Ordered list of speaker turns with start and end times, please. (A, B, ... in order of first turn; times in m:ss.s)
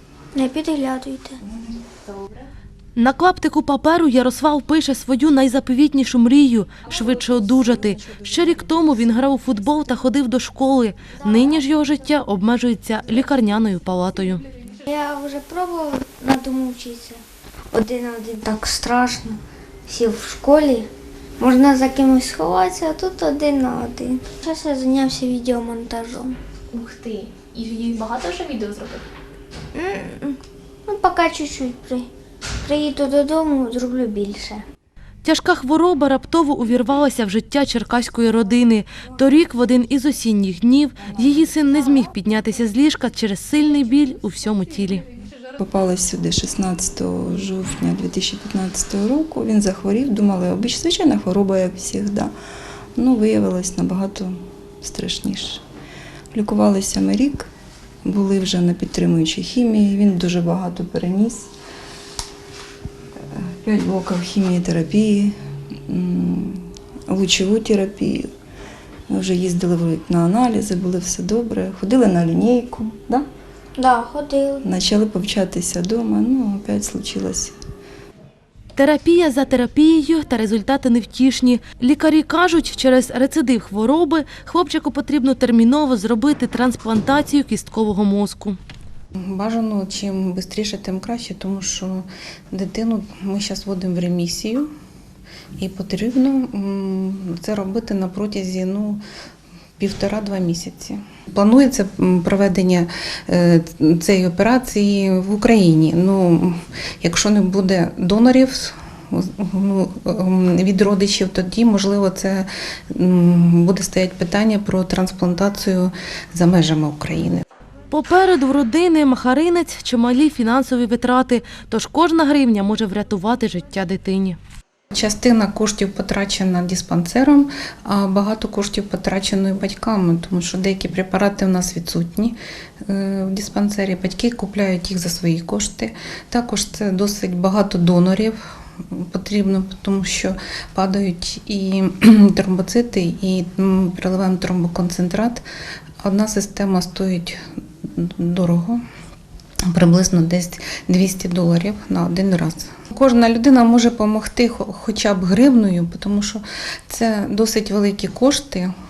0:00.3-0:01.4 A
0:03.0-0:14.4 B
0:14.8-0:20.9 A
0:21.4-0:26.3 A
0:26.8-0:29.0 C
0:29.7-0:32.1 A
0:32.6-0:34.6 A
0:35.2-0:45.0 B
0:45.6-0:52.3 D
0:53.0-0:55.6 D
0:56.3-0:57.5 D
0:58.0-1:01.5 D
1:03.3-1:05.3 D
1:05.9-1:08.3 D
1:09.1-1:13.2 D
1:13.8-1:14.6 A
1:14.6-1:17.5 D
1:18.8-1:28.6 B
1:29.2-1:34.7 E
1:35.6-1:39.0 E
1:39.8-1:57.4 E
1:57.9-2:04.4 B
2:04.9-2:18.4 E
2:18.9-2:25.4 E
2:26.0-2:28.8 E
2:29.7-2:38.7 E